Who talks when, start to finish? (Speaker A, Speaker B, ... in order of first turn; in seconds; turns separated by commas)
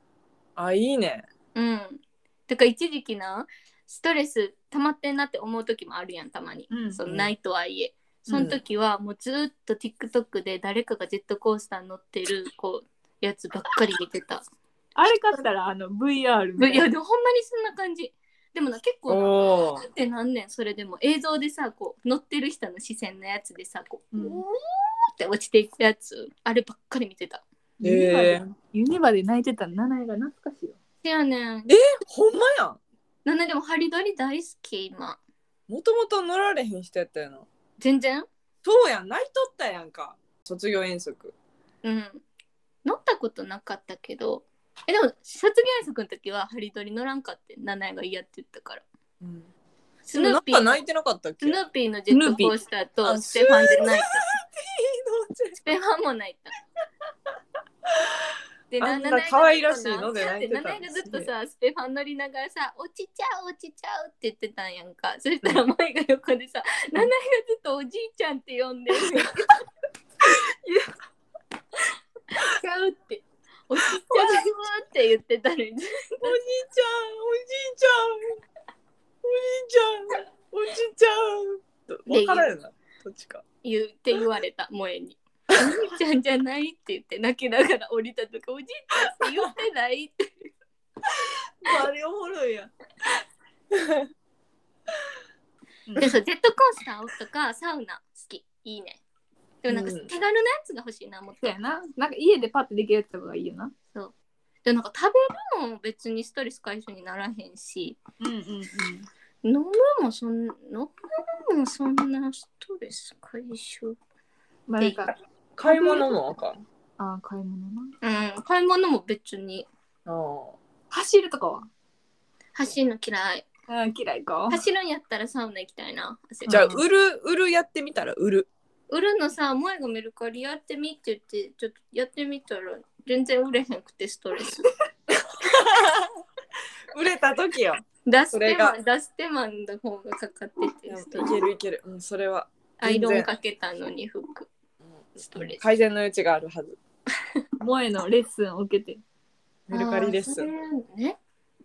Speaker A: 0.6-1.3, Speaker B: 1.6-14.4, Speaker C: 6.7-7.0, Speaker A: 8.3-8.6, Speaker C: 15.0-16.9, Speaker B: 16.6-27.4, Speaker A: 19.1-19.9, Speaker C: 24.1-24.4, Speaker C: 27.8-30.8, Speaker A: 27.8-28.4, Speaker B: 31.0-31.7, Speaker A: 31.7-32.8, Speaker B: 33.2-35.2, Speaker A: 35.7-37.5, Speaker B: 37.8-38.3, Speaker A: 38.6-41.3, Speaker B: 41.8-42.2, Speaker B: 42.9-48.8, Speaker A: 49.2-49.5, Speaker B: 50.1-50.8, Speaker A: 50.1-51.6, Speaker B: 51.4-54.3, Speaker C: 52.1-52.5, Speaker A: 53.0-55.8, Speaker B: 55.6-56.6, Speaker B: 58.7-69.5, Speaker A: 58.8-61.3, Speaker B: 72.3-76.4, Speaker A: 76.2-78.4, Speaker A: 79.2-83.4, Speaker B: 82.1-82.6, Speaker B: 83.6-90.2, Speaker A: 91.6-92.7, Speaker A: 93.7-94.0, Speaker B: 96.0-99.0, Speaker B: 99.6-101.6, Speaker A: 99.7-100.1, Speaker C: 101.4-103.7, Speaker B: 103.9-108.0, Speaker C: 108.2-109.1, Speaker B: 109.4-114.0, Speaker C: 114.7-116.2, Speaker B: 114.8-115.1, Speaker A: 115.6-116.6, Speaker C: 117.0-117.9, Speaker B: 118.0-119.7, Speaker A: 120.1-120.6, Speaker C: 120.9-121.7, Speaker B: 122.5-123.5, Speaker C: 123.7-124.6, Speaker B: 124.5-126.7, Speaker C: 126.5-126.8, Speaker A: 126.5-128.5, Speaker B: 128.9-134.7, Speaker A: 135.5-136.1, Speaker A: 136.9-138.8, Speaker B: 138.1-141.4, Speaker A: 140.9-143.3, Speaker B: 142.8-144.5, Speaker A: 144.8-146.8, Speaker B: 145.2-145.6, Speaker C: 147.6-149.0, Speaker A: 149.7-150.5, Speaker B: 149.7-151.2